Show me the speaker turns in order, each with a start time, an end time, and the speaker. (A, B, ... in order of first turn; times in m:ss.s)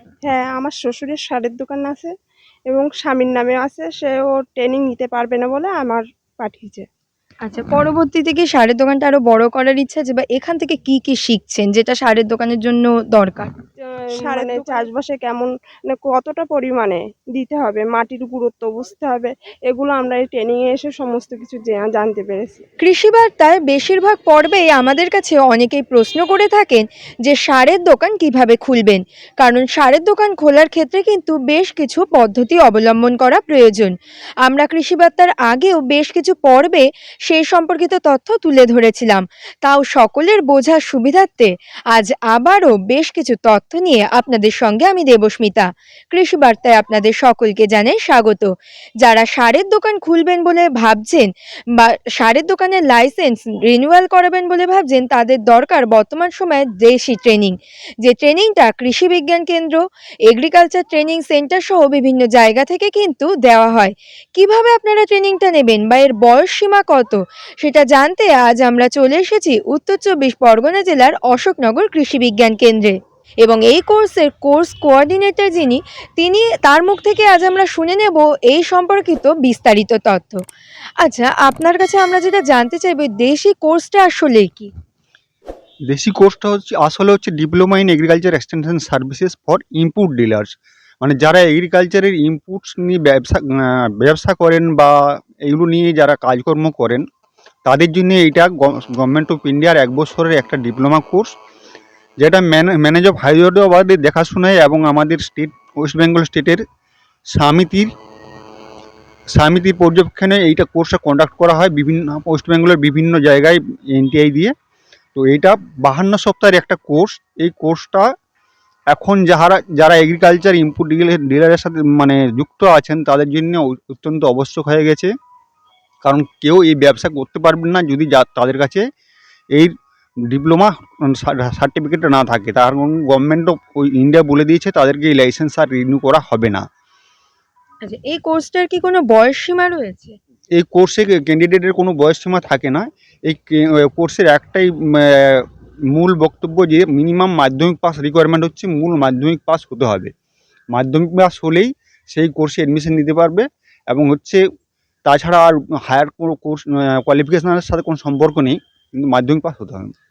0:00.2-0:02.1 A
0:02.6-0:06.8 A
0:07.4-0:13.5 B
0:13.8-0:22.6 A
0:14.2-0:14.8 B
0:22.8-1:20.4 B
1:21.0-1:24.7 B
1:25.9-1:30.5 C
1:31.0-1:34.9 C
1:35.4-1:37.0 C
1:37.6-1:41.3 C
1:42.2-1:46.6 C
1:47.3-1:47.9 C
1:49.3-1:54.5 C
1:55.2-1:58.0 C
1:58.9-2:05.1 C
2:06.0-2:08.8 C
2:10.3-2:16.6 C
2:17.8-2:20.2 B
2:20.6-2:30.1 C
2:30.7-2:34.4 C
2:35.0-2:39.9 C